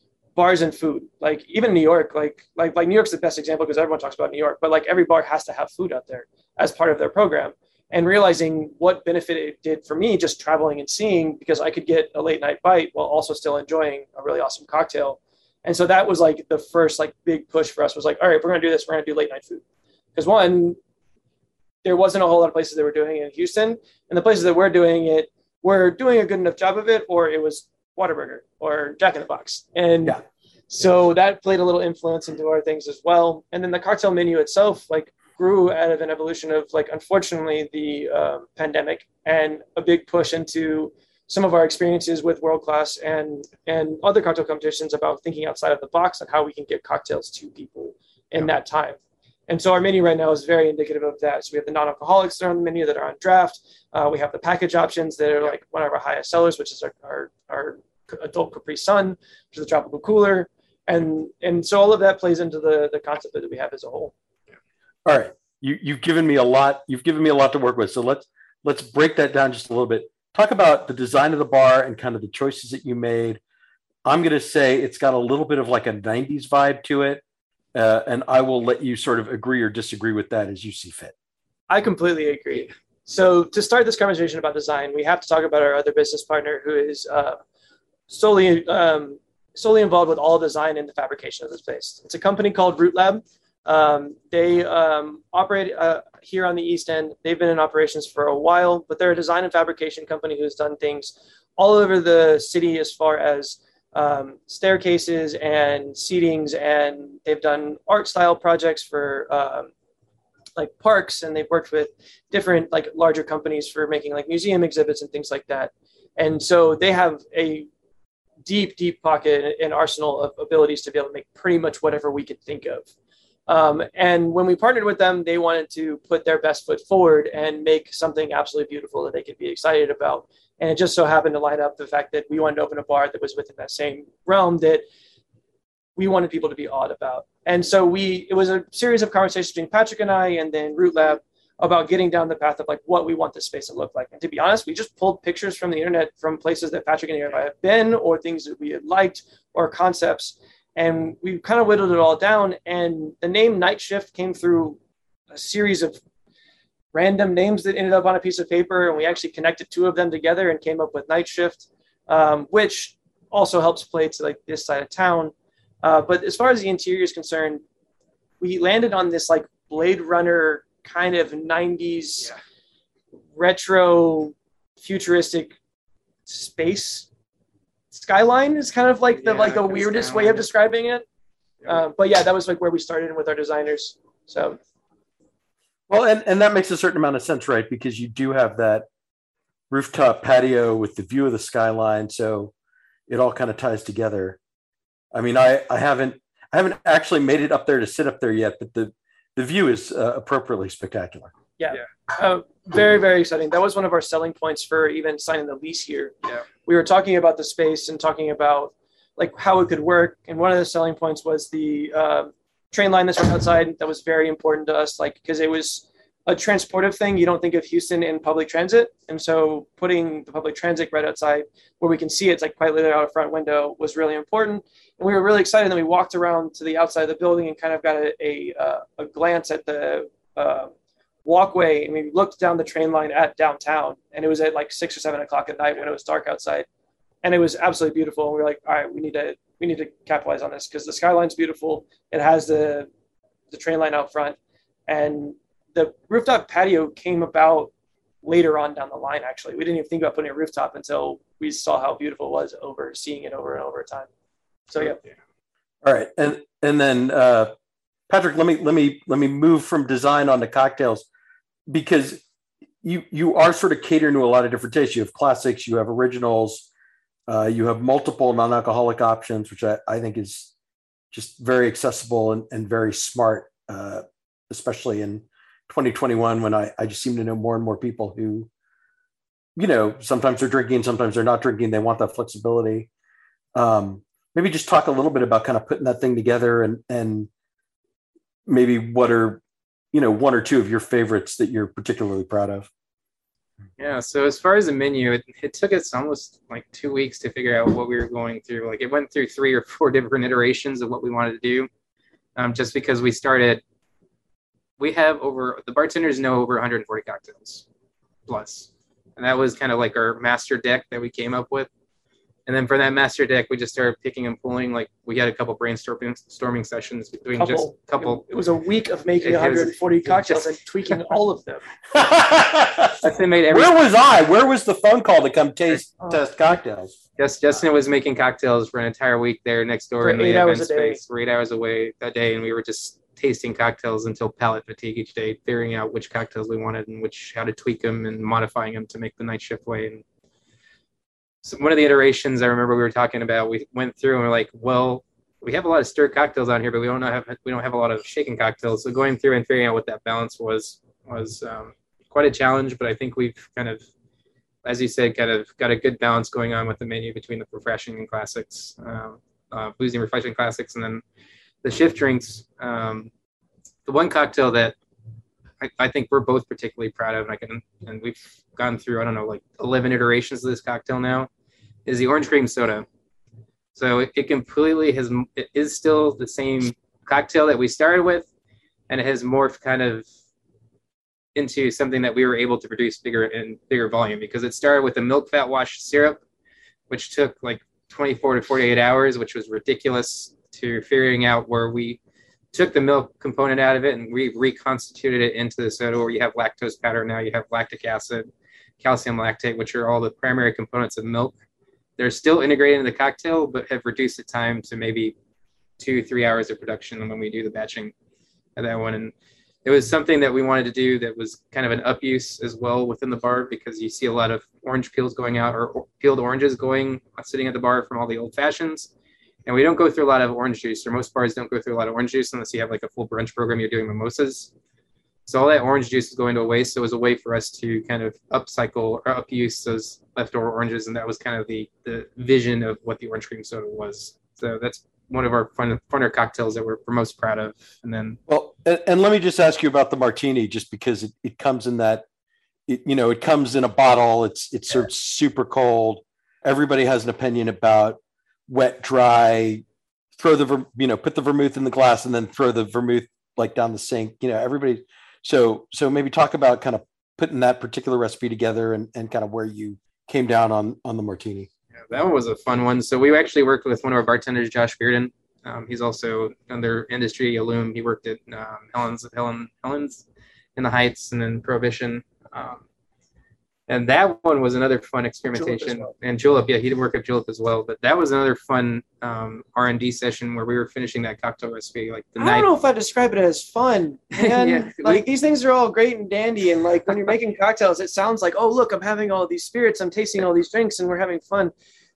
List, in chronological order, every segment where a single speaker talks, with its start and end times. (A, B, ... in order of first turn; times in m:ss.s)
0:00.4-0:19.6 A
0:20.2-0:20.8 A
0:21.8-1:04.1 A
1:05.1-1:13.4 B
1:14.0-1:17.2 B
1:17.7-1:21.1 B
1:21.7-1:27.4 A
1:28.1-1:49.7 A
1:50.6-1:57.7 A
1:58.5-2:02.9 A
2:03.5-2:14.8 A
2:16.0-2:34.8 A
2:35.3-2:36.0 A
2:36.9-2:47.6 A
2:48.4-2:52.3 A
2:53.4-2:55.6 A
2:56.3-2:57.1 A
2:57.9-3:01.0 A
2:59.1-3:00.5 C
3:01.7-3:04.6 A
3:05.9-3:08.9 B
3:09.7-3:12.5 B
3:13.1-3:14.4 B
3:15.1-3:21.3 B
3:21.6-3:50.7 A
3:51.2-3:56.7 A
3:57.2-4:02.9 A
4:03.5-4:04.4 A
4:04.9-4:07.7 A
4:08.2-4:14.1 A
4:14.7-4:15.0 A
4:15.8-4:17.5 B
4:18.1-4:21.0 B
4:21.7-4:22.2 B
4:22.8-4:26.7 B
4:27.3-4:30.5 B
4:31.1-4:38.5 B
4:39.6-4:42.9 B
4:43.6-4:47.3 B
4:48.5-4:49.4 B
4:49.9-4:52.7 B
4:53.8-5:01.7 C
5:02.4-5:03.6 C
5:04.8-5:07.6 C
5:08.3-5:11.7 C
5:12.5-5:18.2 C
5:17.4-5:21.6 A
5:19.2-5:21.0 C
5:21.9-5:26.9 B
5:23.0-5:23.8 C
5:27.2-5:40.0 C
5:30.0-5:31.0 A
5:41.4-5:53.8 C
5:54.6-6:01.0 C
6:01.6-6:03.1 C
6:03.8-6:04.8 C
6:05.6-6:11.3 C
6:11.9-6:12.9 C
6:13.8-6:18.3 C
6:18.9-6:20.0 C
6:21.4-6:26.2 C
6:26.9-6:32.0 C
6:32.5-6:38.3 C
6:38.8-6:41.4 C
6:42.0-6:45.1 C
6:45.8-6:47.9 C
6:48.6-6:49.1 C
6:49.6-6:58.9 C
6:59.5-7:04.5 C
7:05.2-7:18.2 C
7:18.3-7:22.0 B
7:22.7-7:29.6 B
7:30.2-7:41.5 B
7:41.7-7:50.0 C
7:50.6-7:52.6 C
7:53.7-8:02.5 C
7:55.4-7:55.9 A
8:02.2-8:11.5 A
8:04.2-8:05.0 C